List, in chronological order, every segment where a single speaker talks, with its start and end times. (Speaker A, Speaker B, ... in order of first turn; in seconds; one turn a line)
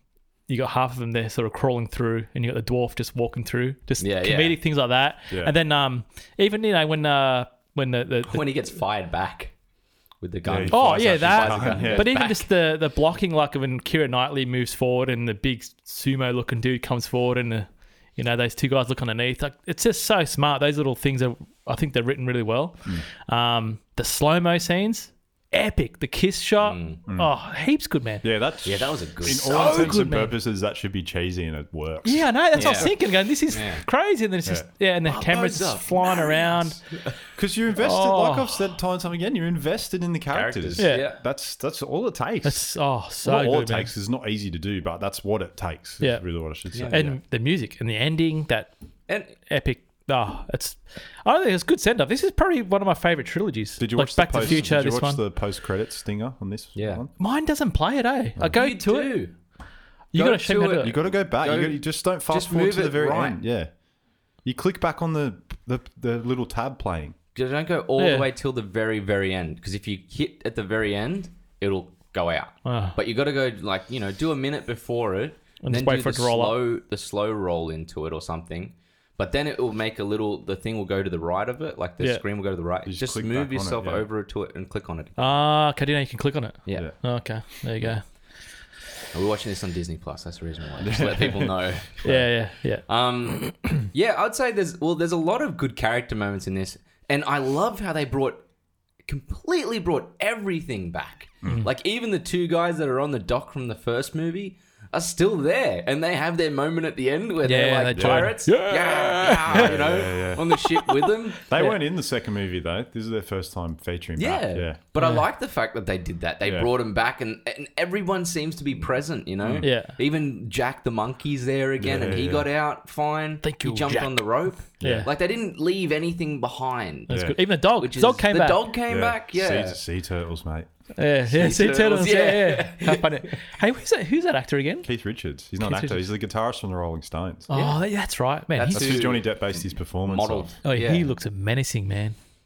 Speaker A: 0.5-8.5
Speaker B: 4.0-4.5
Speaker B: 8.2-9.5
Speaker B: 10.2-12.5
Speaker C: 10.4-12.1
Speaker A: 10.7-28.2
Speaker B: 26.6-27.0
Speaker C: 28.2-33.0
Speaker B: 28.6-30.0
Speaker A: 29.2-30.3
Speaker A: 32.0-36.8
Speaker B: 32.5-32.9
Speaker B: 33.5-33.8
Speaker B: 35.0-37.2
Speaker C: 37.4-42.6
Speaker A: 37.8-38.6
Speaker B: 40.3-41.2
Speaker A: 40.8-41.1
Speaker A: 42.4-43.9
Speaker C: 43.2-47.2
Speaker B: 46.7-47.1
Speaker A: 46.8-48.7
Speaker B: 49.1-49.4
Speaker A: 49.5-55.2
Speaker C: 53.8-57.1
Speaker B: 56.7-57.0
Speaker A: 57.2-59.1
Speaker B: 58.5-59.3
Speaker A: 60.1-60.9
Speaker B: 60.1-63.4
Speaker C: 60.8-63.7
Speaker C: 64.4-67.2
Speaker B: 67.3-85.3
Speaker A: 68.0-68.3
Speaker A: 72.6-73.0
Speaker A: 75.6-76.6
Speaker C: 82.8-84.0
Speaker A: 85.2-88.0
Speaker B: 86.7-86.9
Speaker B: 89.1-92.0
Speaker C: 90.8-92.3
Speaker A: 92.0-92.8
Speaker B: 92.8-98.4
Speaker B: 99.1-111.4
Speaker A: 107.4-109.9
Speaker C: 107.9-108.3
Speaker C: 109.5-110.4
Speaker A: 110.5-111.8
Speaker C: 111.5-114.8
Speaker B: 114.2-127.2
Speaker A: 115.0-115.2
Speaker C: 116.4-116.7
Speaker C: 119.4-119.7
Speaker A: 119.6-119.9
Speaker C: 121.8-122.5
Speaker A: 123.4-125.1
Speaker C: 124.8-125.1
Speaker A: 127.1-128.6
Speaker C: 127.1-127.3
Speaker B: 127.8-129.8
Speaker C: 128.9-130.7
Speaker A: 131.0-134.9
Speaker B: 131.3-133.4
Speaker C: 134.8-137.5
Speaker A: 135.6-136.0
Speaker B: 137.5-137.8
Speaker A: 137.5-139.1
Speaker B: 138.5-139.3
Speaker C: 138.7-140.5
Speaker B: 140.1-141.1
Speaker A: 140.6-142.2